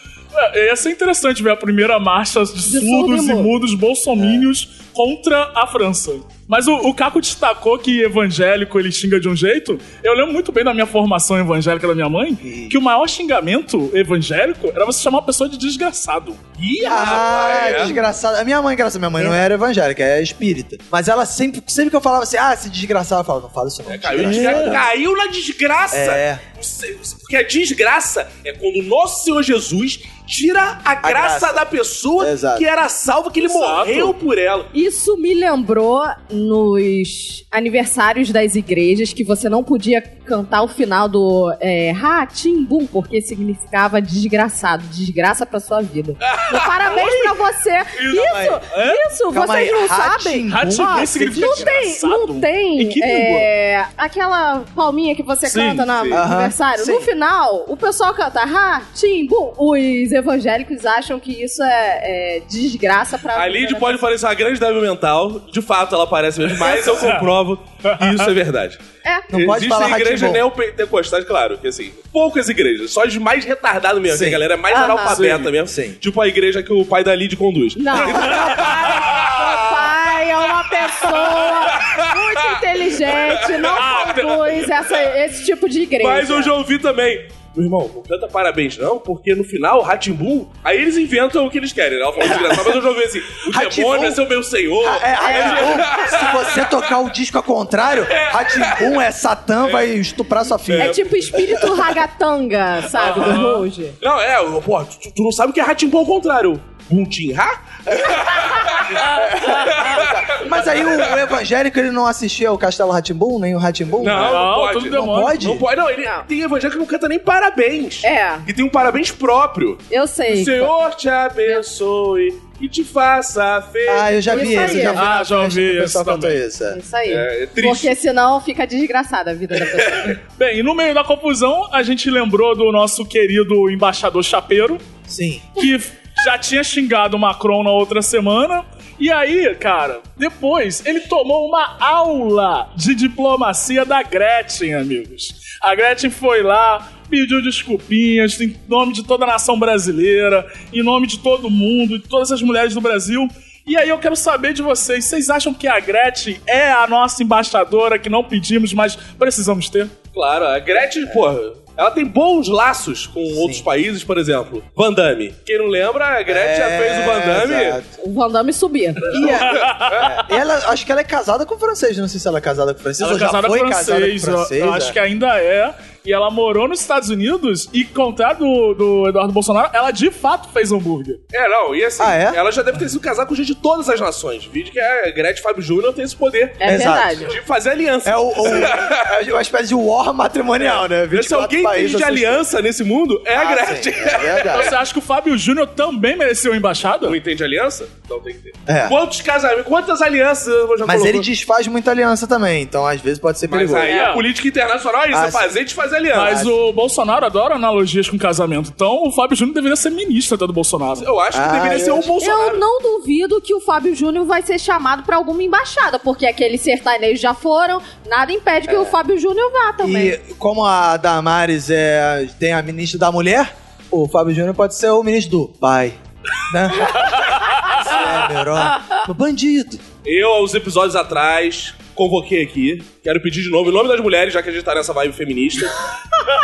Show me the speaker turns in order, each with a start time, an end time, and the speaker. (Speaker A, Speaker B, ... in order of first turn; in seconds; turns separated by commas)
Speaker A: 0.3-16.4, Speaker B: 2.6-3.5, Speaker C: 4.2-4.4, Speaker C: 12.4-12.8, Speaker D: 16.6-18.0, Speaker C: 16.8-24.9, Speaker D: 23.9-34.7, Speaker A: 24.2-24.7, Speaker C: 25.9-26.4, Speaker C: 31.0-31.6, Speaker C: 32.2-32.6, Speaker A: 33.4-34.1, Speaker B: 34.7-64.0, Speaker D: 46.2-47.4, Speaker A: 48.0-49.0, Speaker C: 48.1-48.6, Speaker C: 49.3-51.8, Speaker A: 50.5-53.5, Speaker A: 55.4-56.0, Speaker C: 56.1-57.1, Speaker D: 63.3-68.8, Speaker B: 66.6-67.1, Speaker A: 66.9-67.2, Speaker A: 67.8-68.2, Speaker C: 69.3-70.4, Speaker D: 69.3-80.1, Speaker C: 74.1-74.4, Speaker B: 74.7-75.2, Speaker A: 75.1-75.5, Speaker C: 75.6-76.0, Speaker B: 77.8-86.5, Speaker A: 78.0-78.3, Speaker D: 80.8-84.9, Speaker A: 83.7-84.6, Speaker D: 86.0-96.9, Speaker C: 92.2-92.8, Speaker C: 93.4-94.2, Speaker C: 94.8-101.8, Speaker B: 95.2-95.9, Speaker D: 98.0-99.0, Speaker D: 99.6-99.9, Speaker D: 100.7-101.7, Speaker B: 100.8-104.0, Speaker A: 102.9-103.7, Speaker D: 103.0-103.4, Speaker D: 104.0-111.2, Speaker C: 107.9-115.7, Speaker D: 114.0-125.0, Speaker A: 114.2-115.4, Speaker B: 118.0-118.5, Speaker B: 119.9-120.7, Speaker C: 123.9-126.8, Speaker B: 124.3-125.0, Speaker A: 124.9-126.4, Speaker B: 126.7-130.2, Speaker D: 127.1-128.0, Speaker A: 130.2-134.8, Speaker C: 135.1-135.7, Speaker A: 135.6-159.9, Speaker D: 160.1-167.8, Speaker C: 163.3-163.7, Speaker C: 166.3-168.0, Speaker B: 168.0-169.3, Speaker C: 169.1-175.0, Speaker A: 169.3-170.0, Speaker D: 169.5-170.2, Speaker A: 173.0-181.2, Speaker D: 181.3-186.6, Speaker C: 182.0-182.4, Speaker B: 186.6-187.3, Speaker C: 186.6-187.2, Speaker D: 187.2-189.1, Speaker C: 188.0-192.4, Speaker D: 190.7-194.7, Speaker C: 193.3-194.7, Speaker A: 194.5-197.2, Speaker D: 197.0-201.3, Speaker C: 198.7-198.9, Speaker C: 200.8-203.9, Speaker D: 203.5-206.4, Speaker A: 203.8-204.2, Speaker C: 205.1-205.5, Speaker A: 206.1-211.1, Speaker C: 206.2-206.5, Speaker D: 211.0-212.6, Speaker C: 211.3-212.1, Speaker B: 212.2-220.2, Speaker C: 218.7-219.0, Speaker C: 219.8-229.8, Speaker D: 230.0-235.8